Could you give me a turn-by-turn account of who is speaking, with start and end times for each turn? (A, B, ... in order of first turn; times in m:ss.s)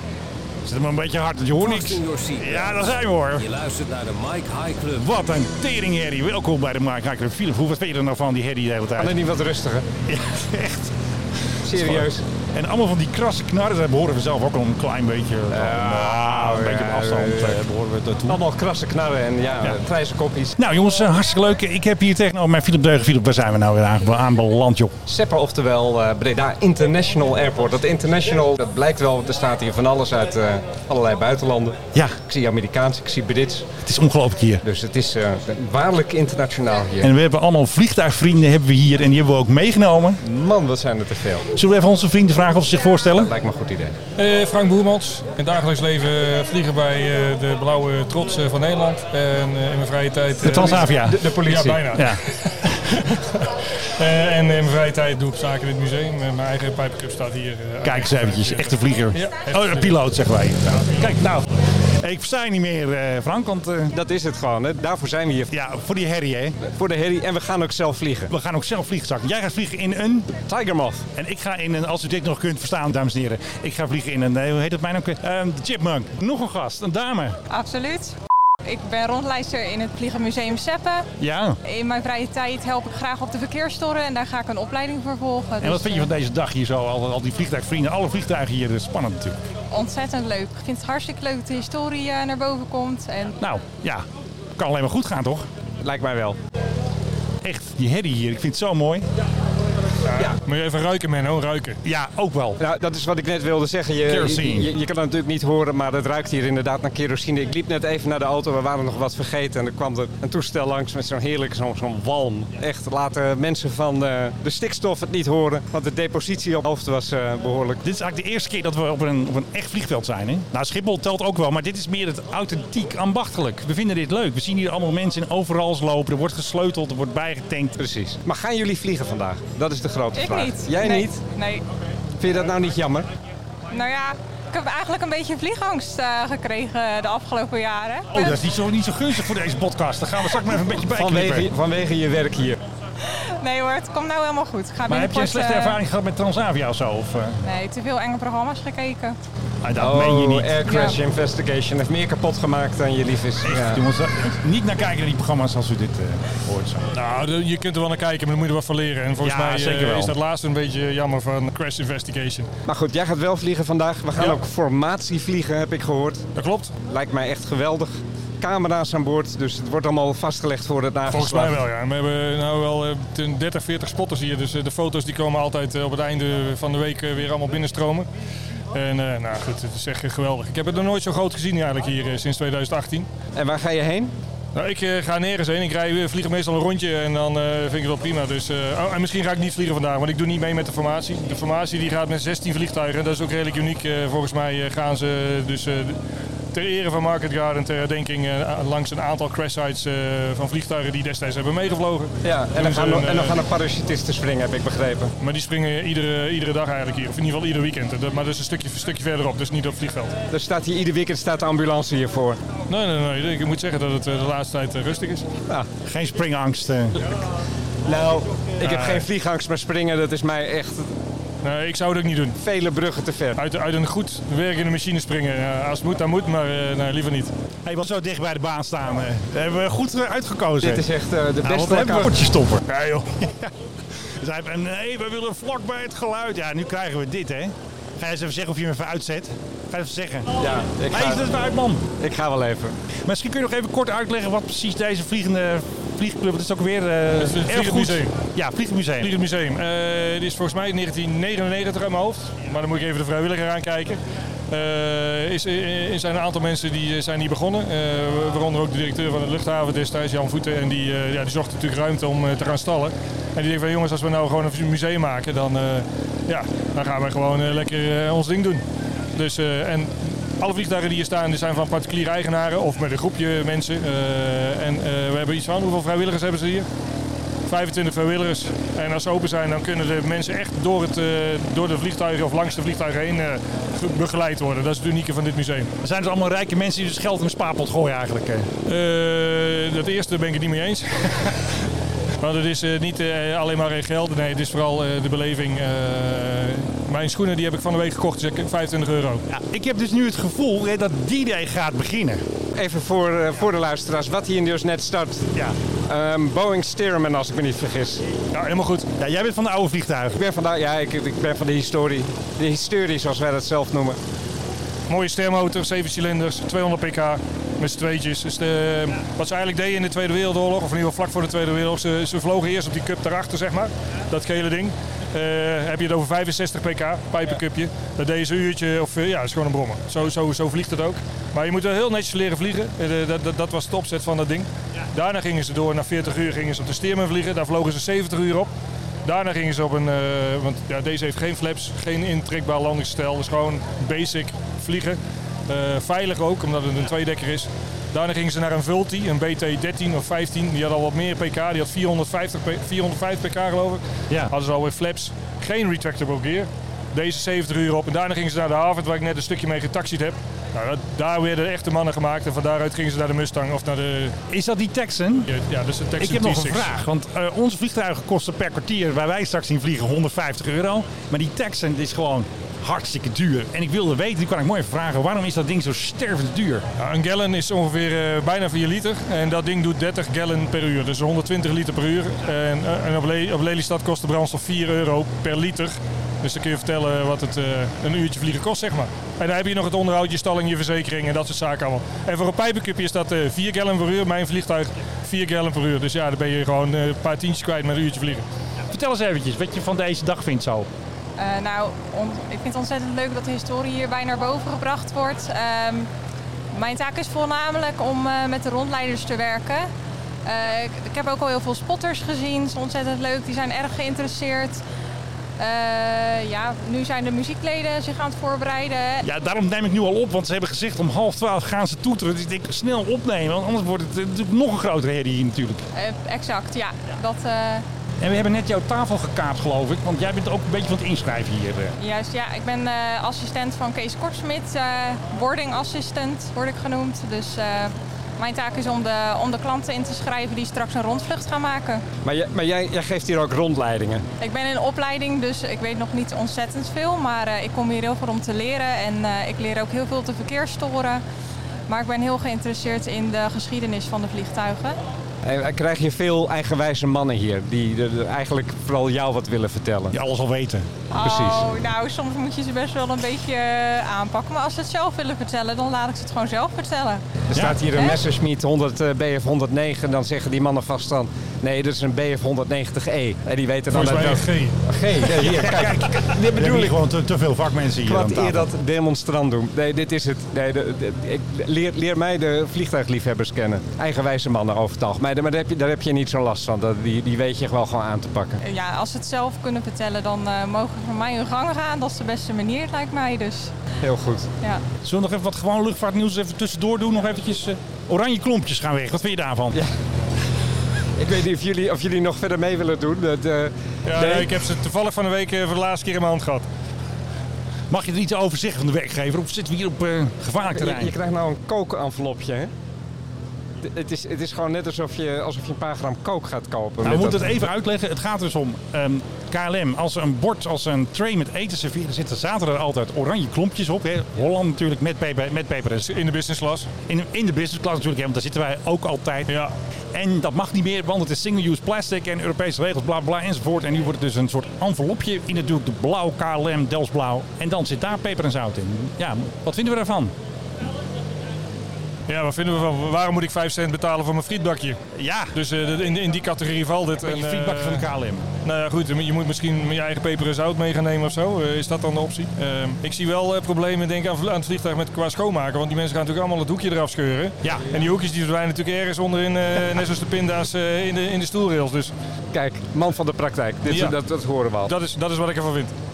0:00.6-0:03.5 A
0:01.6-0:05.1 B
0:05.0-0:09.2 A
0:09.0-0:09.9 C
0:10.1-0:10.9 A
0:11.6-0:18.4 A
0:11.6-0:12.2 C
0:15.5-0:17.6 C
0:18.3-0:20.6 C
0:20.6-0:25.0 A
0:25.1-0:33.8 C
0:33.8-0:34.6 A
0:34.6-0:37.1 C
0:37.0-0:40.2 A
0:40.2-0:41.5 C
0:41.5-0:43.3 A
0:43.2-0:44.0 C
0:44.2-0:50.9 D
0:50.4-0:52.2 A
0:50.4-0:52.0 C
0:51.4-1:00.0 D
0:57.8-1:03.9 A
1:00.7-1:01.2 D
1:03.9-1:05.5 C
1:05.5-1:06.6 A
1:06.6-1:08.3 C
1:08.3-1:10.3 A
1:10.5-1:11.1 C
1:11.2-1:17.4 A
1:17.5-1:18.1 E
1:18.6-1:21.1 E
1:21.2-1:21.6 A
1:21.6-1:26.1 E
1:25.6-1:29.4 A
1:29.7-1:33.4 E
1:33.4-1:34.0 A
1:34.6-1:35.5 A
1:35.8-1:36.4 C
1:37.4-1:39.1 A
1:40.0-1:41.8 D
1:41.8-1:42.6 A
1:42.6-1:57.8 C
1:44.0-1:44.7 A
1:57.8-2:07.8 A
2:07.8-2:11.2 C
2:10.1-2:11.6 E
2:12.2-2:13.1 C
2:13.7-2:18.4 E
2:18.1-2:21.5 A
2:20.9-2:22.6 C
2:23.0-2:25.8 E
2:24.9-2:27.4 A
2:27.4-2:29.2 E
2:29.6-2:30.5 A
2:29.8-2:33.8 C
2:30.6-2:31.0 E
2:33.4-2:36.9 A
2:36.9-2:42.5 D
2:39.2-2:40.2 A
2:42.7-2:46.2 C
2:46.4-2:46.7 D
2:46.8-2:51.6 C
2:51.1-2:58.1 D
2:58.7-3:03.1 D
3:03.4-3:04.2 C
3:04.5-3:16.0 D
3:16.5-3:23.5 D
3:22.2-3:25.1 C
3:25.2-3:30.2 D
3:30.3-3:32.4 C
3:32.7-3:35.3 D
3:35.8-3:37.0 A
3:37.8-3:40.9 C
3:38.6-3:39.1 D
3:41.4-3:42.4 D
3:42.4-3:43.4 C
3:43.4-3:47.3 D
3:47.6-3:50.9 A
3:50.6-3:52.2 C
3:51.4-4:01.9 A
4:00.4-4:01.3 C
4:02.0-4:02.8 C
4:03.0-4:09.2 A
4:07.2-4:08.1 D
4:09.0-4:14.0 D
4:14.5-4:28.6 D
4:29.2-4:36.7 D
4:37.5-4:45.7 D
4:45.8-4:48.5 A
4:48.7-4:51.3 D
4:52.2-4:59.2 D
4:59.3-5:02.2 A
5:02.6-5:05.3 C
5:05.9-5:08.0 C
5:08.3-5:08.9 D
5:09.0-5:10.2 A
5:10.1-5:14.0 C
5:14.9-5:38.5 D
5:39.0-6:04.2 D
5:54.1-5:54.3 A
6:04.3-6:05.3 A
6:05.3-6:06.8 D
6:06.0-6:16.6 A
6:16.8-6:38.3 D
6:38.7-6:40.7 A
6:41.2-6:45.9 E
6:46.5-6:49.7 E
6:50.2-6:54.6 E
6:55.4-6:59.1 E
6:59.0-7:05.7 A
7:05.8-7:07.6 E
7:08.0-7:11.8 A
7:11.8-7:21.8 E
7:22.0-7:24.1 C
7:24.2-7:31.0 E
7:31.7-7:34.8 E
7:35.2-7:40.0 C
7:39.9-7:40.7 A
7:40.9-7:47.0 E
7:41.0-7:41.5 C
7:47.3-7:56.8 C
7:47.3-7:47.6 A
7:47.8-7:48.0 E
7:53.7-7:54.6 D
7:55.1-7:58.5 A
7:57.8-8:08.4 C
8:08.4-8:13.5 E
8:13.8-8:14.3 C
8:14.8-8:19.6 A
8:21.0-8:24.4 C
8:23.8-8:26.5 D
8:27.7-8:31.0 A
8:30.4-8:32.5 C
8:33.6-8:37.4 C
8:36.8-8:45.9 A
8:45.8-8:46.7 D
8:46.9-8:49.4 A
8:49.3-8:49.5 D
8:49.9-9:00.2 A
9:02.1-9:04.8 D
9:04.9-9:05.4 A
9:05.3-9:07.9 D
9:07.0-9:08.3 A
9:08.4-9:21.9 D
9:17.4-9:17.7 A
9:22.3-9:24.7 C
9:23.7-9:24.0 D
9:24.7-9:25.7 D